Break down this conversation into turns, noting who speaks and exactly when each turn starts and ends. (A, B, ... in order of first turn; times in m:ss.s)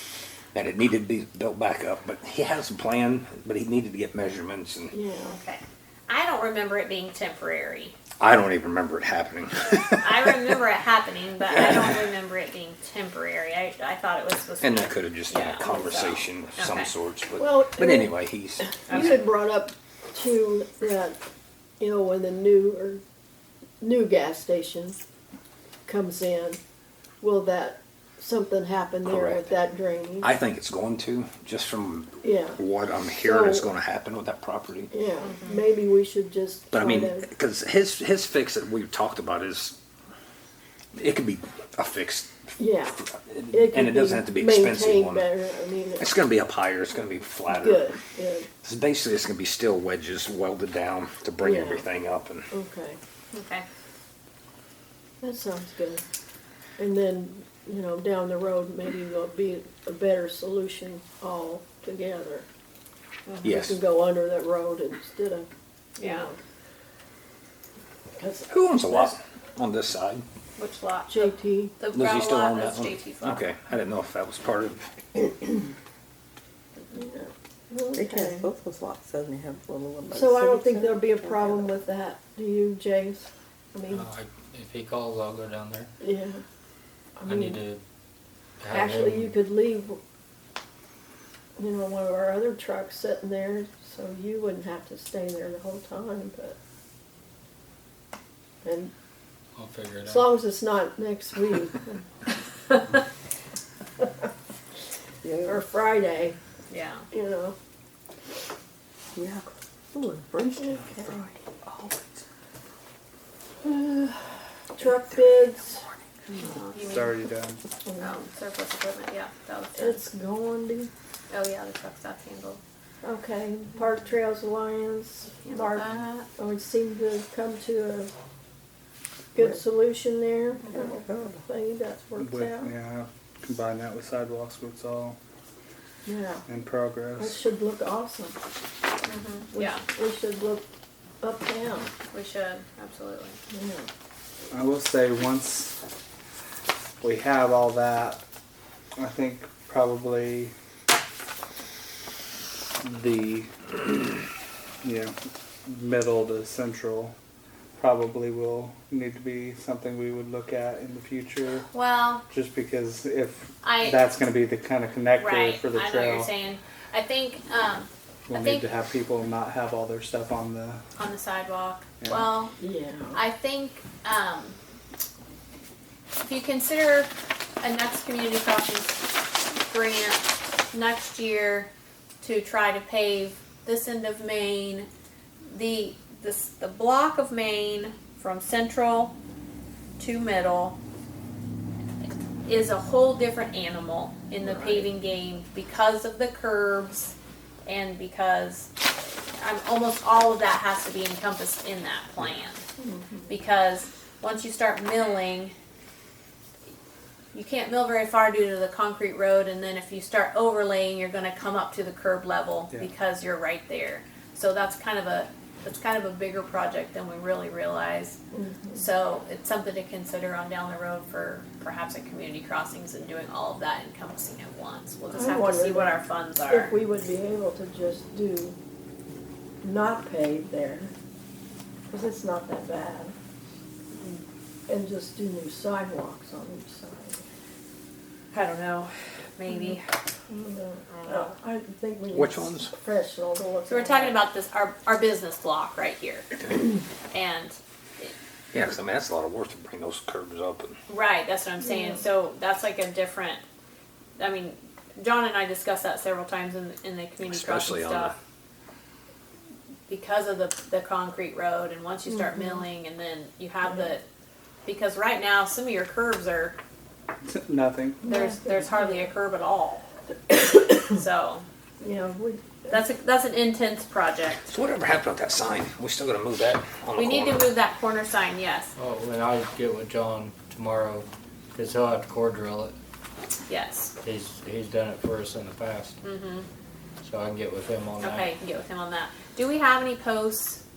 0:00.5-0:04.9 A
0:04.9-0:05.4 B
0:05.3-0:08.0 C
0:08.2-0:10.6 A
0:10.0-0:16.9 C
0:11.5-0:12.0 A
0:14.6-0:18.7 A
0:17.4-0:21.2 B
0:18.9-0:19.2 C
0:21.8-0:23.0 B
0:23.8-0:25.0 B
0:25.8-0:26.6 B
0:27.2-0:30.3 B
0:29.0-0:29.5 A
0:30.2-0:34.9 A
0:32.2-0:33.7 B
0:34.9-0:37.3 B
0:35.2-0:35.7 C
0:36.7-0:39.8 A
0:40.9-0:42.4 A
0:42.6-0:43.0 B
0:43.2-0:45.3 A
0:43.5-0:46.1 B
0:46.0-0:47.8 A
0:47.5-0:48.5 B
0:48.6-0:52.5 A
0:51.4-0:51.8 B
0:52.5-0:53.0 B
0:53.3-0:53.6 C
0:55.2-0:56.0 B
0:56.8-1:02.4 B
1:03.4-1:03.8 A
1:03.4-1:05.5 B
1:06.0-1:06.3 C
1:06.0-1:06.4 B
1:08.2-1:09.1 B
1:08.5-1:10.2 A
1:10.6-1:13.5 C
1:11.1-1:11.7 B
1:11.9-1:14.9 A
1:16.9-1:18.4 B
1:17.9-1:21.7 D
1:20.1-1:24.1 B
1:23.9-1:25.9 E
1:26.0-1:26.4 B
1:27.2-1:27.6 B
1:27.3-1:27.8 E
1:28.6-1:29.3 E
1:28.7-1:30.0 B
1:31.6-1:36.6 B
1:38.6-1:38.9 B
1:39.6-1:40.3 E
1:40.0-1:42.0 B
1:45.2-1:45.6 D
1:45.4-1:46.4 B
1:46.7-1:47.0 C
1:47.1-1:47.6 B
1:49.2-1:51.9 D
1:50.6-1:50.9 B
1:53.6-1:55.8 B
1:56.4-1:57.2 C
1:56.8-1:57.6 F
1:57.8-1:58.2 B
1:58.0-2:00.0 C
1:59.7-2:00.9 B
2:01.3-2:02.6 C
2:03.0-2:08.1 B
2:05.4-2:06.2 C
2:09.3-2:12.7 B
2:10.7-2:11.4 D
2:12.2-2:15.2 F
2:16.0-2:16.4 B
2:16.5-2:17.4 F
2:17.2-2:18.4 B
2:19.0-2:19.8 C
2:19.5-2:20.6 B
2:21.2-2:21.9 B
2:22.1-2:23.4 C
2:23.5-2:23.9 B
2:24.5-2:25.8 F
2:27.0-2:28.2 F
2:29.0-2:30.5 F
2:32.8-2:34.1 F
2:34.8-2:35.1 F
2:35.6-2:37.1 F
2:37.8-2:41.7 F
2:41.7-2:42.2 C
2:42.3-2:46.3 F
2:43.6-2:44.1 C
2:45.2-2:48.7 C
2:48.3-2:50.8 F
2:51.0-2:52.5 C
2:52.0-2:52.3 F
2:52.6-2:53.2 B
2:53.1-2:54.6 C
2:56.2-3:01.7 C
3:02.2-3:04.9 C
3:05.5-3:09.1 C
3:10.0-3:10.8 C
3:12.4-3:17.1 C
3:17.6-3:22.6 C
3:22.8-3:23.3 B
3:23.3-3:25.5 C
3:27.3-3:38.2 C
3:38.3-3:38.8 B
3:38.7-3:46.7 C
3:45.1-3:48.6 B
3:49.6-3:50.9 B
3:51.9-3:53.1 B
3:54.0-3:54.2 C
3:54.7-3:57.2 B
3:58.3-3:59.8 C
3:59.5-3:59.8 B
4:00.3-4:04.2 B
4:00.9-4:01.3 C
4:02.1-4:02.7 A
4:03.7-4:06.4 C
4:07.1-4:08.1 C
4:08.5-4:10.8 A
4:10.9-4:13.4 C
4:11.6-4:12.0 B
4:14.2-4:18.1 C
4:17.2-4:18.1 A
4:19.9-4:24.0 C
4:22.1-4:22.5 B
4:24.6-4:26.6 C
4:27.2-4:28.0 F
4:28.0-4:29.0 B
4:28.0-4:29.8 C
4:30.3-4:30.8 B
4:30.9-4:31.4 C
4:31.8-4:32.8 B
4:32.7-4:34.5 C
4:34.5-4:37.5 A
4:36.9-4:38.7 C
4:38.8-4:42.7 E
4:43.5-4:43.9 C
4:44.0-4:45.9 E
4:46.0-4:46.5 C
4:47.0-4:48.3 E
4:48.0-4:50.6 C